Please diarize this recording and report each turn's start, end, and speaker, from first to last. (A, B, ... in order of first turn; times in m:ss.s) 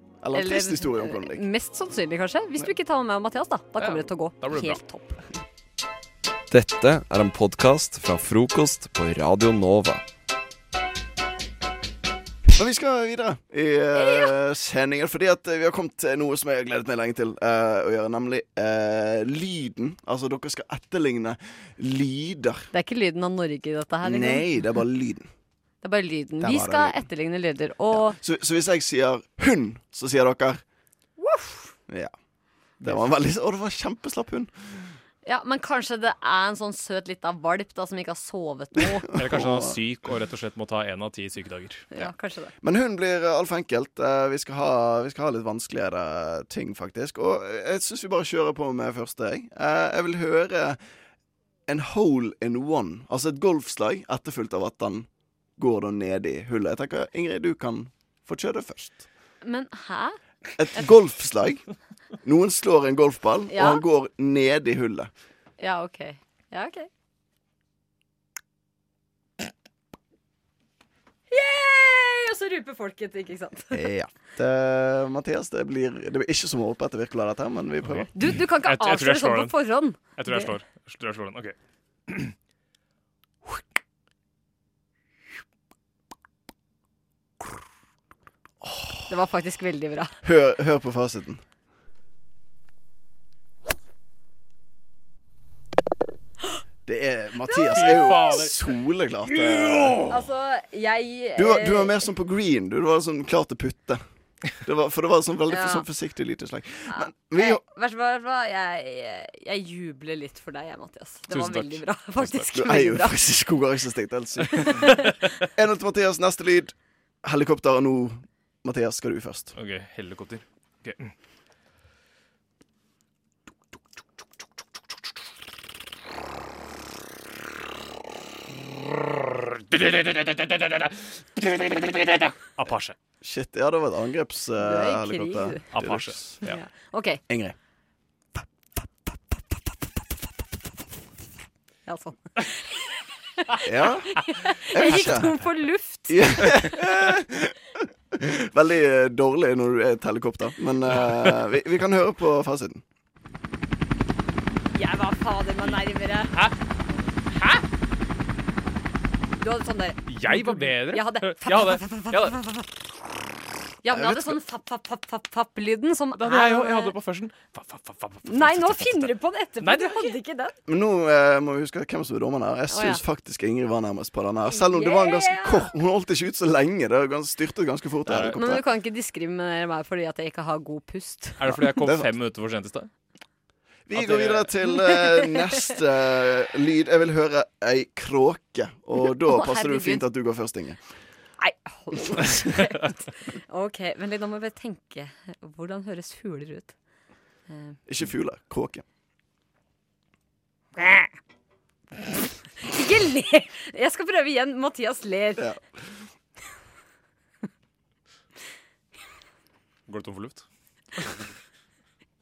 0:00.2-0:01.5 A
0:00.3-0:05.2 B
0:03.8-0:04.8 C
0:06.5-0:10.0 D
0:12.5-0:22.7 A
0:14.0-0:14.3 B
0:22.7-0:24.5 B
0:24.0-0:25.3 A
0:25.8-0:28.2 B
0:26.4-0:27.1 A
0:27.9-0:30.6 A
0:31.2-0:31.7 B
0:31.9-0:32.1 A
0:32.8-0:34.9 A
0:35.2-0:39.1 B
0:38.8-0:39.8 A
0:39.2-0:41.9 C
0:41.9-0:42.5 B
0:42.6-0:50.8 A
0:51.7-0:59.1 A
0:59.4-1:00.2 B
1:00.6-1:01.6 A
1:02.2-1:05.1 A
1:03.5-1:03.8 B
1:05.6-1:06.9 B
1:11.3-1:13.8 B
1:13.7-1:18.1 A
1:18.1-1:20.6 B
1:18.6-1:21.6 C
1:22.1-1:22.4 C
1:29.1-1:30.1 B
1:30.2-1:31.4 A
1:36.9-1:40.0 A
1:37.5-1:38.4 B
1:37.7-1:38.6 C
1:39.7-1:40.0 C
1:40.0-1:42.0 B
1:41.4-1:44.0 A
1:44.6-1:47.6 A
1:45.5-1:45.9 B
1:46.9-1:53.2 B
1:51.3-1:52.4 C
1:52.5-1:54.7 A
1:54.7-1:55.0 B
1:55.6-1:59.6 A
1:59.6-2:01.1 C
2:09.6-2:10.8 C
2:12.6-2:13.0 C
2:13.2-2:16.4 A
2:14.6-2:15.8 B
2:15.7-2:16.6 C
2:16.4-2:17.2 B
2:17.3-2:17.6 A
2:21.9-2:22.8 B
2:23.7-2:24.1 A
2:24.1-2:26.2 B
2:24.7-2:25.4 A
2:24.9-2:25.2 C
2:26.1-2:27.6 A
2:28.1-2:32.8 A
2:30.9-2:31.4 C
2:34.7-2:36.4 B
2:37.3-2:37.6 C
2:39.4-2:42.6 B
2:40.1-2:42.4 C
2:43.8-2:47.0 B
2:43.9-2:44.4 A
2:46.2-2:50.2 C
2:48.2-2:50.6 B
2:50.7-2:58.6 A
2:52.7-2:53.0 B
2:54.5-2:55.7 B
2:58.1-2:58.4 C
2:58.2-3:01.4 B
3:01.4-3:02.9 C
3:01.5-3:02.2 A
3:03.9-3:10.8 A
3:03.9-3:04.5 C
3:09.2-3:10.0 B
3:11.4-3:16.8 B
3:17.5-3:17.8 B
3:17.9-3:18.8 A
3:20.8-3:21.1 B
3:22.6-3:25.5 B
3:25.4-3:25.8 A
3:29.9-3:30.4 C